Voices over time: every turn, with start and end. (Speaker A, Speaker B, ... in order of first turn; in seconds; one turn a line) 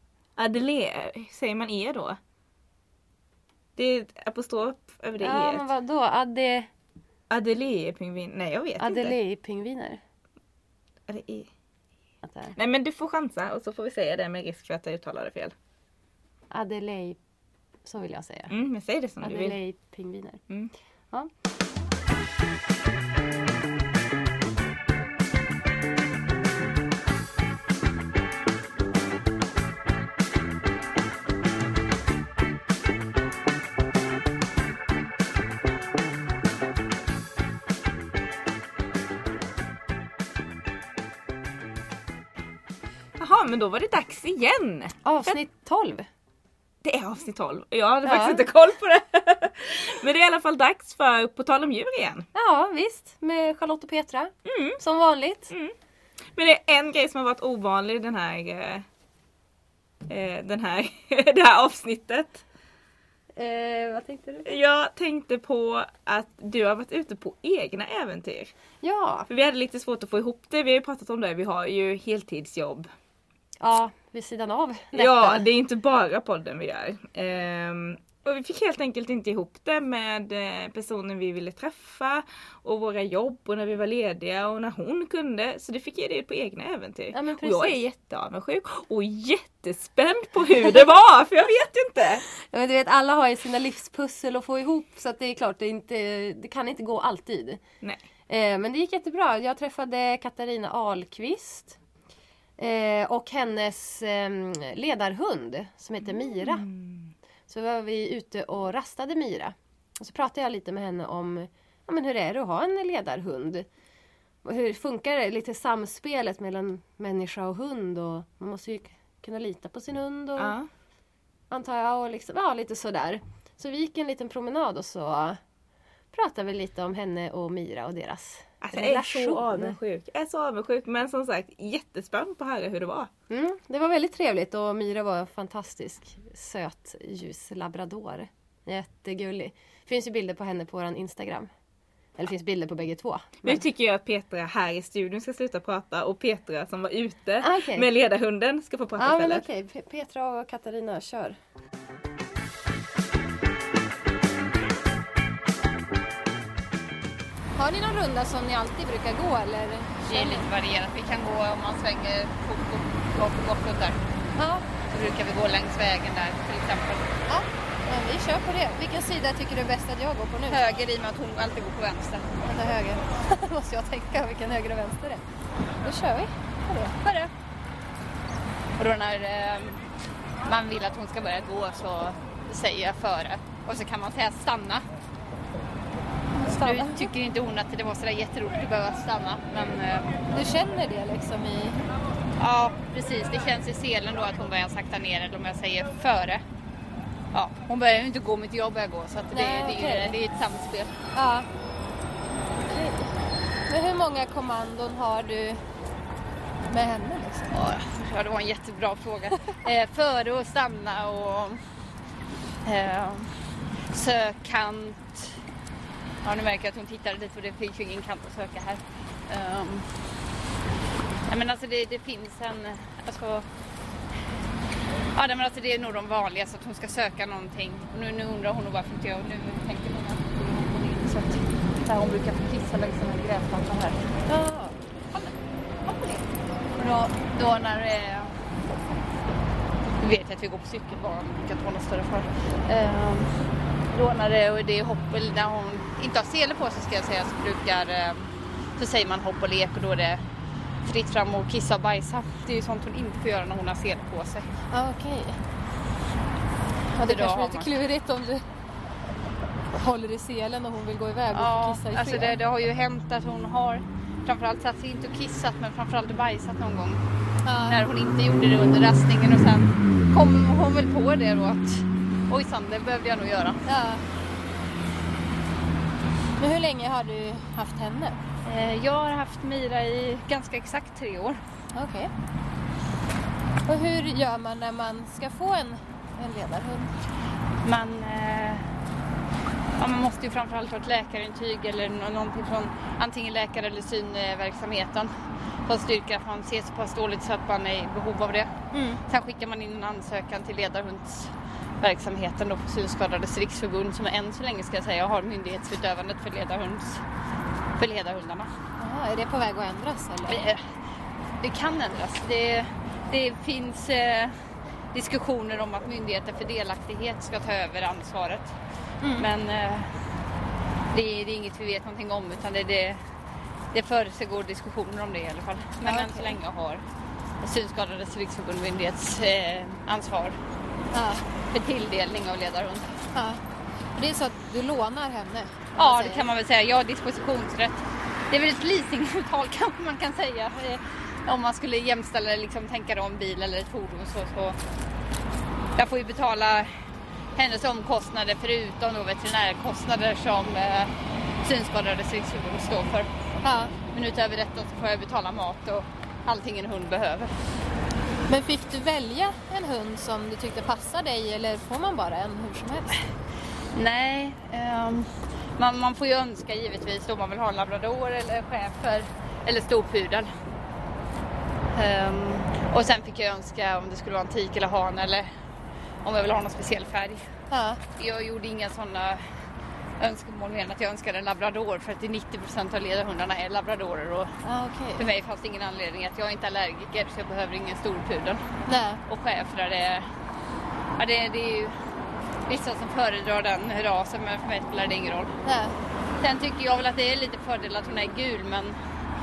Speaker A: 0.4-2.2
Speaker A: 3.8-5.7
Speaker B: 5.2-6.7
Speaker A: 7.3-9.2
Speaker B: 8.8-10.0
Speaker A: 11.1-11.5
Speaker B: 12.2-12.5
Speaker A: 12.5-15.5
Speaker B: 16.5-17.2
Speaker B: 17.8-18.5
Speaker A: 18.5-19.6
Speaker B: 19.2-20.4
Speaker A: 43.2-45.4
Speaker B: 45.0-46.1
Speaker A: 46.8-52.3
Speaker B: 48.0-48.4
Speaker B: 52.3-55.5
Speaker A: 54.5-54.8
Speaker A: 56.3-58.8
Speaker A: 60.1-62.4
Speaker B: 63.3-64.5
Speaker A: 64.4-68.5
Speaker B: 68.8-69.3
Speaker A: 69.3-72.9
Speaker B: 73.6-75.4
Speaker A: 74.9-92.2
Speaker B: 87.1-87.8
Speaker B: 92.3-97.6
Speaker B: 98.3-101.8
Speaker B: 102.6-106.7
Speaker A: 106.4-107.1
Speaker B: 107.5-113.7
Speaker B: 114.4-120.5
Speaker A: 120.4-120.7
Speaker B: 121.5-125.4
Speaker B: 126.1-129.8
Speaker A: 128.6-133.1
Speaker B: 133.3-141.5
Speaker B: 142.2-143.6
Speaker A: 143.4-149.4
Speaker B: 147.4-147.9
Speaker B: 149.0-151.4
Speaker B: 157.6-160.5
Speaker C: 160.1-164.0
Speaker B: 164.4-164.7
Speaker C: 164.8-167.2
Speaker B: 167.3-170.6
Speaker C: 170.5-172.4
Speaker B: 172.4-175.3
Speaker B: 175.8-177.1
Speaker C: 177.0-177.3
Speaker C: 178.8-179.8
Speaker C: 180.4-184.8
Speaker B: 186.3-187.1
Speaker C: 186.5-190.1
Speaker B: 190.3-191.8
Speaker C: 192.4-196.4
Speaker C: 197.3-201.0
Speaker B: 199.3-200.2
Speaker B: 201.1-201.5
Speaker B: 202.7-203.0
Speaker B: 203.7-205.6
Speaker B: 206.7-207.6
Speaker C: 207.5-211.7
Speaker C: 212.6-215.4
Speaker C: 216.2-220.0
Speaker C: 221.3-223.5
Speaker C: 225.1-234.1
Speaker B: 234.3-234.8
Speaker C: 235.8-236.2
Speaker C: 236.8-238.4
Speaker C: 240.0-250.2
Speaker C: 250.8-254.6
Speaker B: 254.7-255.4
Speaker B: 256.9-258.4
Speaker C: 257.0-257.7
Speaker B: 259.7-262.4
Speaker C: 261.3-267.1
Speaker B: 267.4-267.8
Speaker C: 267.6-273.6
Speaker B: 273.6-274.0
Speaker B: 276.4-278.2
Speaker C: 278.4-281.4
Speaker B: 281.7-282.1
Speaker B: 283.6-286.9
Speaker C: 287.6-288.7
Speaker C: 289.8-307.0
Speaker B: 298.7-299.0
Speaker C: 307.8-308.5
Speaker B: 308.8-310.4
Speaker C: 310.3-310.7
Speaker C: 311.4-318.6
Speaker B: 319.0-319.3
Speaker C: 319.1-320.0
Speaker C: 320.9-323.0
Speaker C: 323.7-326.8
Speaker B: 325.8-326.4
Speaker C: 327.4-330.4
Speaker B: 330.9-331.2
Speaker C: 331.4-333.0
Speaker B: 333.1-333.4
Speaker B: 333.9-336.3
Speaker C: 335.8-344.6
Speaker C: 345.8-346.8
Speaker C: 347.4-353.1
Speaker B: 353.4-353.8
Speaker C: 353.8-357.5
Speaker B: 358.3-363.0
Speaker C: 363.7-370.4
Speaker C: 371.7-375.3
Speaker C: 376.0-377.3
Speaker B: 377.5-377.8
Speaker C: 377.9-379.4
Speaker C: 380.0-384.4
Speaker B: 384.4-385.1
Speaker C: 385.0-390.1
Speaker B: 388.7-389.0
Speaker C: 391.0-391.8
Speaker C: 392.4-395.4
Speaker B: 395.4-395.8
Speaker C: 396.2-398.8